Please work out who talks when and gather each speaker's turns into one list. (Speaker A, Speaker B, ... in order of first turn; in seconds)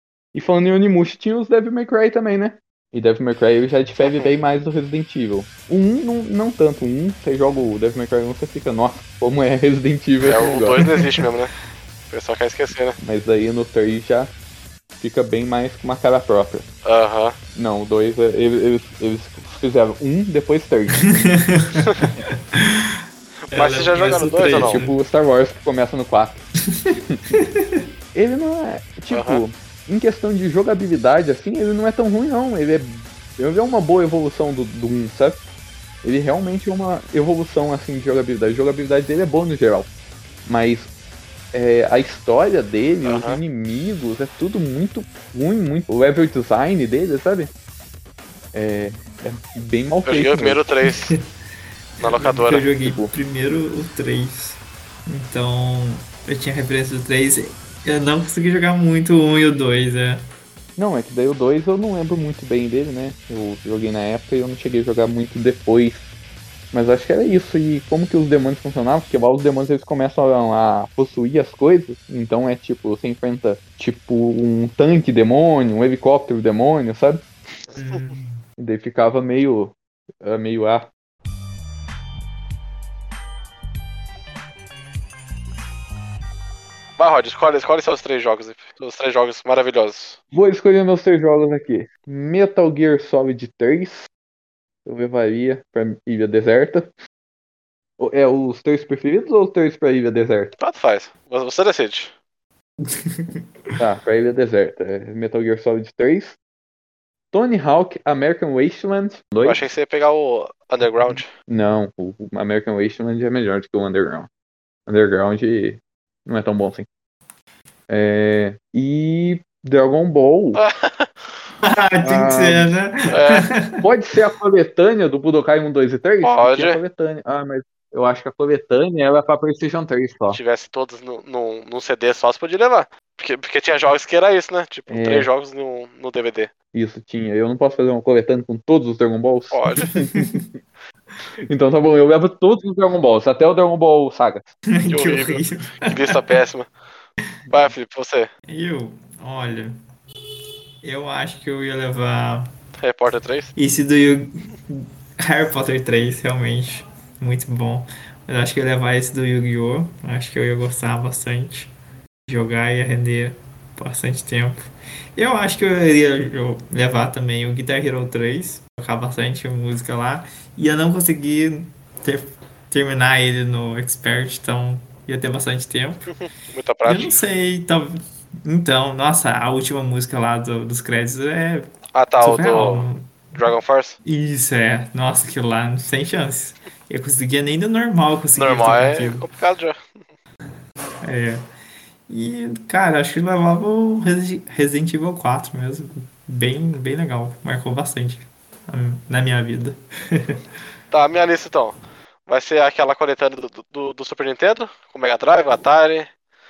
Speaker A: 0.3-10.9, 13.0-14.3, 15.0-16.6, 17.5-21.1, 24.6-27.2, 28.1-35.4, 36.0-39.9, 40.5-40.9, 41.5-47.5, 48.5-50.6, 52.8-53.1, 60.8-66.1, 66.7-77.2, 78.6-80.9, 90.3-94.1, 94.8-96.9, 98.0-100.5, 103.8-106.4, 107.3-109.6, 111.5-114.3, 114.9-116.9, 117.9-120.6, 122.0-122.7, 123.8-130.4, 134.9-135.3, 136.7-140.4, 141.5-144.5
Speaker B: 4.0-4.3, 10.2-11.5, 12.1-13.0, 16.8-17.4, 21.8-22.1, 23.5-24.8, 29.1-29.4, 43.0-43.4, 50.0-51.1, 52.0-52.7, 87.0-90.2, 100.6-102.1, 109.4-111.3, 120.5-121.3, 123.1-123.5, 126.2-126.8, 130.3-136.5, 139.5-139.9, 144.9-146.7, 147.5-148.3, 152.8-153.5, 176.1-177.2, 181.9-184.0, 188.3-190.0, 200.9-206.1
Speaker C: 21.2-22.9, 23.5-25.0, 50.9-51.2, 52.0-60.2, 77.7-78.4, 102.9-103.4, 121.6-123.8, 140.1-140.4, 144.7-146.4, 148.5-149.8, 150.8-152.5, 153.6-161.7, 162.3-176.1, 176.8-181.7, 182.2-183.3, 184.0-189.3, 191.0-191.4, 192.1-200.4